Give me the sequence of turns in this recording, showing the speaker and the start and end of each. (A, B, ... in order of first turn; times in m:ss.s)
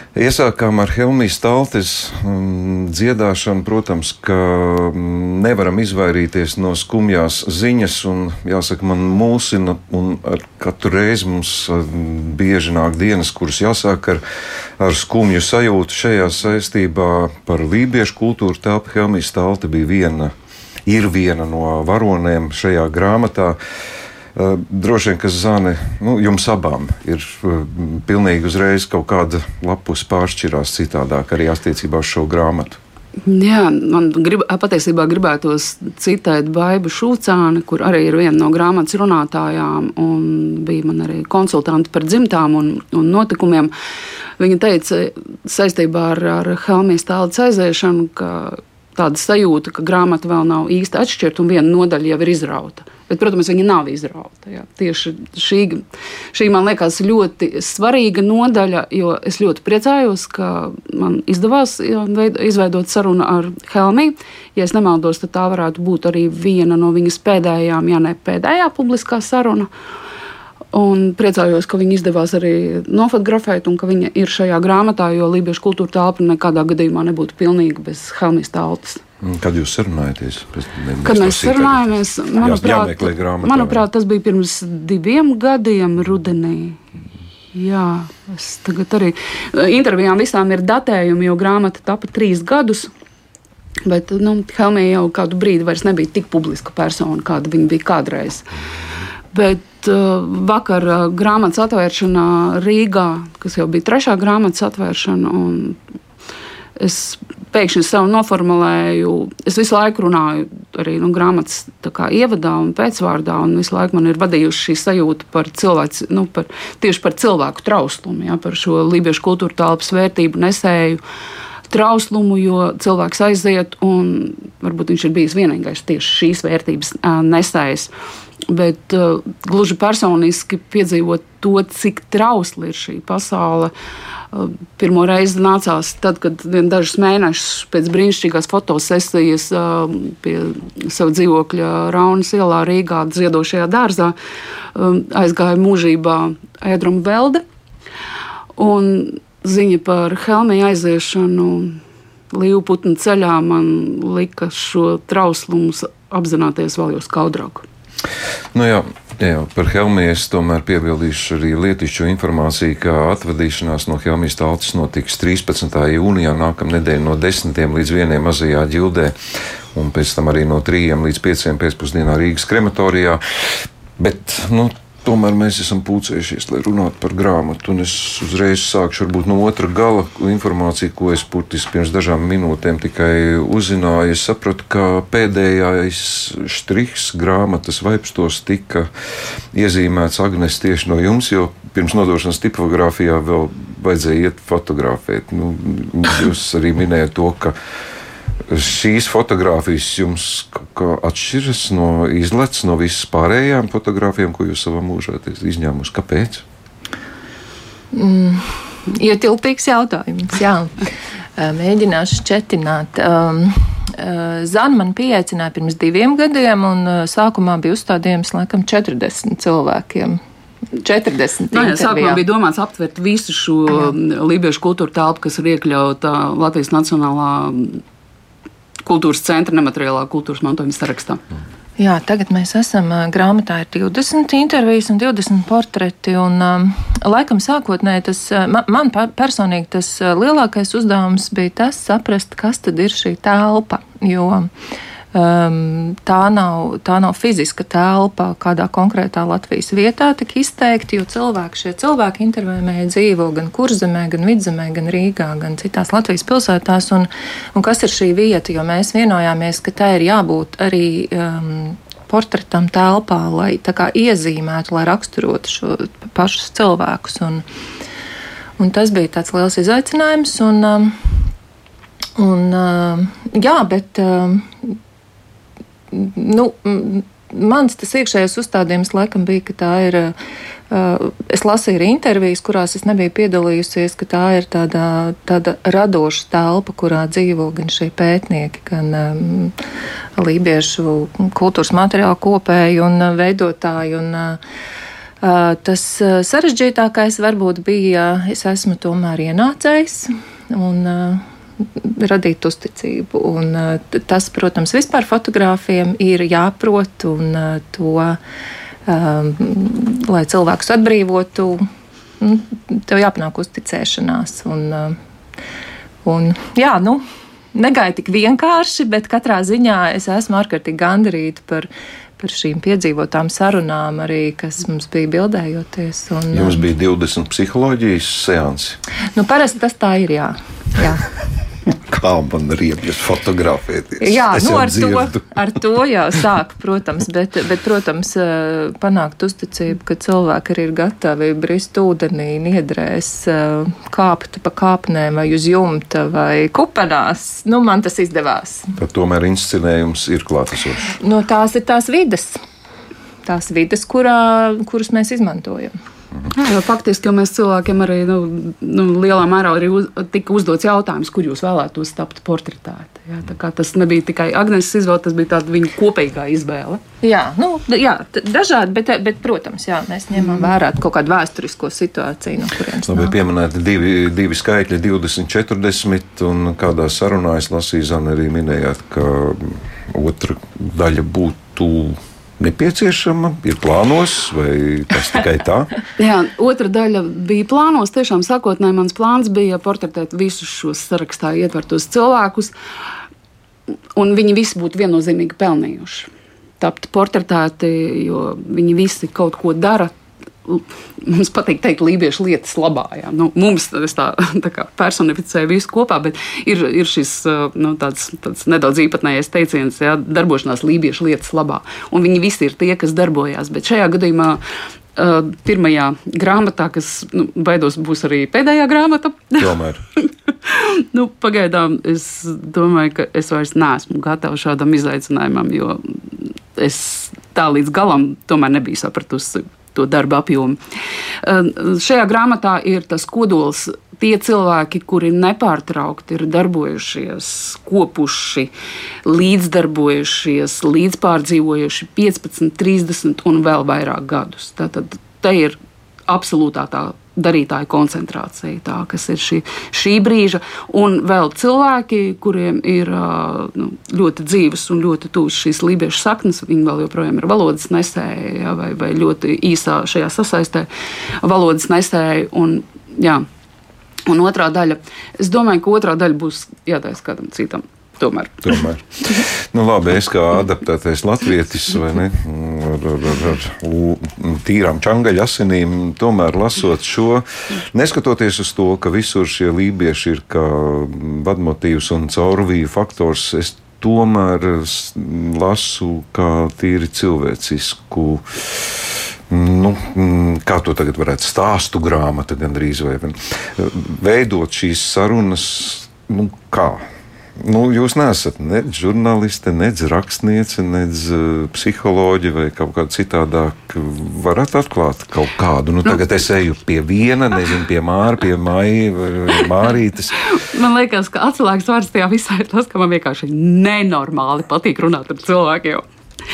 0:00.2-0:14.2 A
0:14.8-0:20.3 A
0:20.9-0:23.6 A
0:24.4-0:32.8 A
0:33.2-0:43.7 B
0:44.4-1:09.7 B
1:10.7-1:19.0 B
1:19.2-1:21.8 A
1:21.0-1:26.8 B
1:22.4-1:23.8 A
1:27.5-1:32.9 B
1:33.8-1:38.5 B
1:39.3-1:45.8 B
1:46.8-2:01.0 B
2:01.7-2:07.9 B
2:08.5-2:13.7 B
2:14.3-2:24.2 B
2:24.7-2:27.4 B
2:28.6-2:37.7 B
2:38.5-2:49.1 A
2:49.7-3:08.9 A
3:09.5-3:17.5 A
3:18.5-3:26.4 A
3:27.9-3:30.8 C
3:31.4-3:40.2 C
3:40.7-3:42.2 C
3:41.5-3:47.8 B
3:48.8-3:51.2 B
3:51.8-4:04.5 C
4:05.1-4:27.4 C
4:28.6-4:31.3 C
4:32.2-4:34.8 C
4:35.9-4:40.1 C
4:40.7-4:49.6 C
4:50.2-4:54.4 C
4:55.2-5:08.2 C
5:08.9-5:11.7 C
5:12.2-5:15.0 C
5:16.0-5:26.6 C
5:26.3-5:28.8 A
5:29.1-5:31.1 C
5:31.7-5:35.3 A
5:34.0-5:48.8 C
5:48.8-5:50.9 A
5:51.0-5:52.4 C
5:53.2-5:55.8 C
5:56.3-6:06.8 B
6:07.0-6:13.2 C
6:12.9-6:25.8 A
6:26.0-6:32.5 B
6:34.0-6:36.1 B
6:36.6-6:39.9 B
6:40.4-6:54.4 B
6:55.0-7:10.6 B
6:59.4-6:59.8 A
7:11.2-7:18.5 B
7:19.0-7:40.7 B
7:41.2-7:43.3 B
7:44.1-7:48.6 B
7:48.4-8:16.8 A
8:17.4-8:30.3 A
8:30.2-8:35.8 B